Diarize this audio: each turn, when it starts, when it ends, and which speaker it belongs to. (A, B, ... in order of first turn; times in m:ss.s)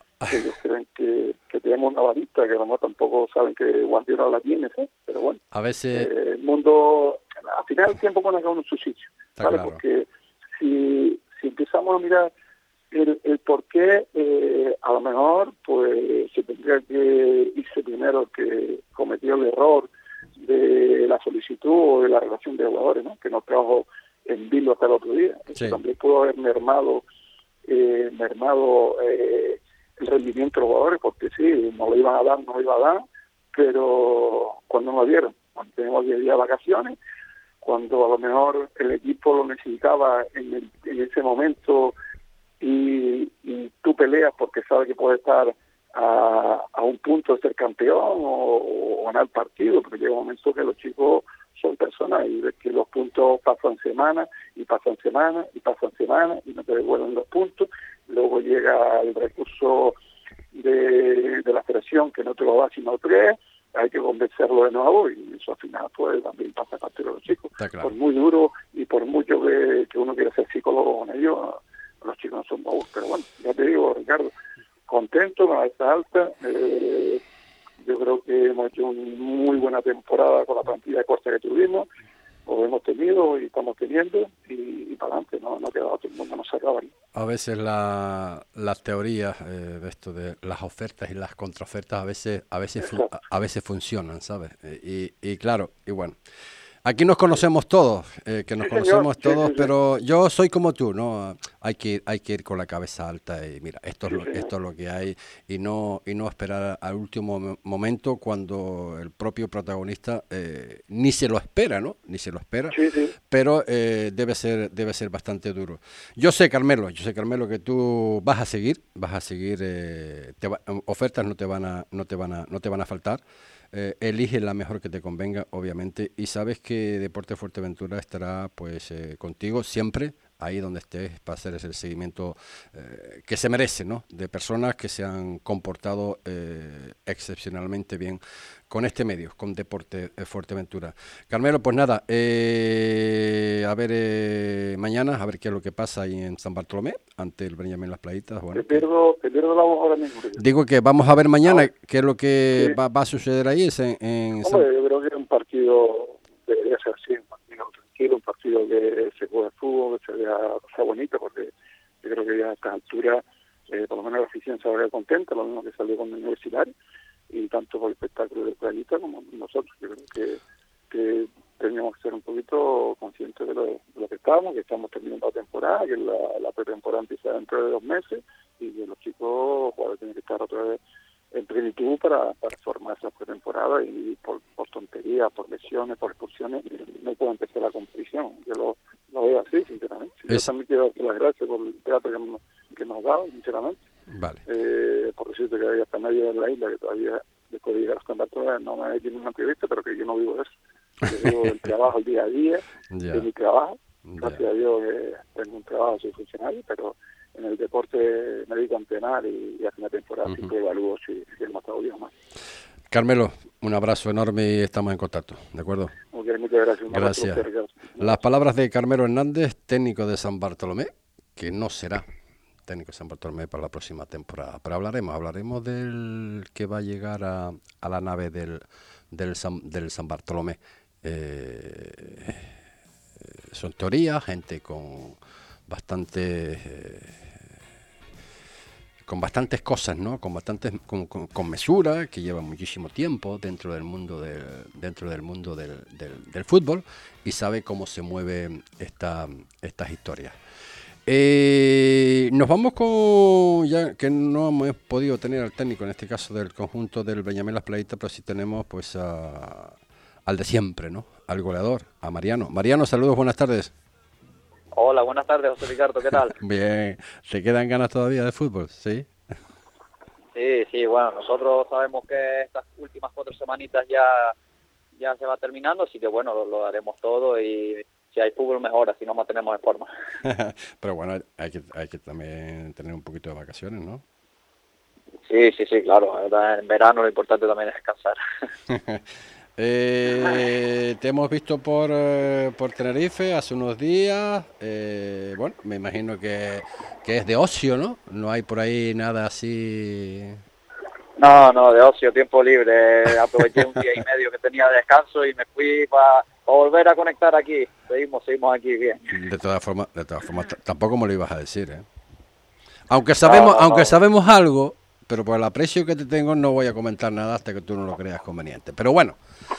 0:00.3-0:05.4 A
0:05.5-0:06.1 B
0:05.9-0:12.3 A
0:09.4-0:09.8 B
0:12.9-0:19.9 A
0:20.4-0:27.0 A
0:25.5-0:25.8 B
0:27.7-0:33.0 A
0:33.5-0:37.0 A
0:37.6-0:41.9 A
0:42.6-1:00.0 A
1:00.5-1:14.3 A
1:07.6-1:07.9 B
1:14.9-1:17.2 A
1:17.8-1:21.9 A
1:22.4-1:26.9 A
1:27.1-1:36.2 B
1:32.8-1:33.1 A
1:36.8-1:52.8 B
1:38.6-1:39.7 A
1:44.1-1:44.5 A
1:52.7-1:53.1 A
1:53.3-2:28.8 B
2:28.5-2:30.4 A
2:30.4-2:34.6 B
2:34.4-2:46.7 A
2:47.3-3:00.8 A
3:01.3-3:13.8 A
3:14.1-3:14.4 B
3:14.5-3:20.5 A
3:21.0-3:32.1 A
3:21.2-3:21.5 B
3:22.9-3:23.2 B
3:24.1-3:24.4 B
3:30.2-3:30.5 B
3:32.9-3:35.9 B
3:36.1-3:38.2 A
3:36.9-3:37.4 B
3:38.0-3:42.0 B
3:42.7-3:52.5 B
3:53.5-3:57.3 B
3:59.0-4:10.3 B
4:11.0-4:19.7 B
4:20.2-4:23.7 B
4:24.7-4:26.3 C
4:26.4-4:29.1 B
4:30.3-4:34.3 C
4:35.0-4:39.9 C
4:40.2-4:44.0 B
4:45.3-4:48.2 C
4:48.7-4:49.0 B
4:49.6-5:00.4 B
5:01.2-5:09.0 C
5:09.1-5:11.8 B
5:12.9-5:19.2 B
5:13.2-5:14.0 C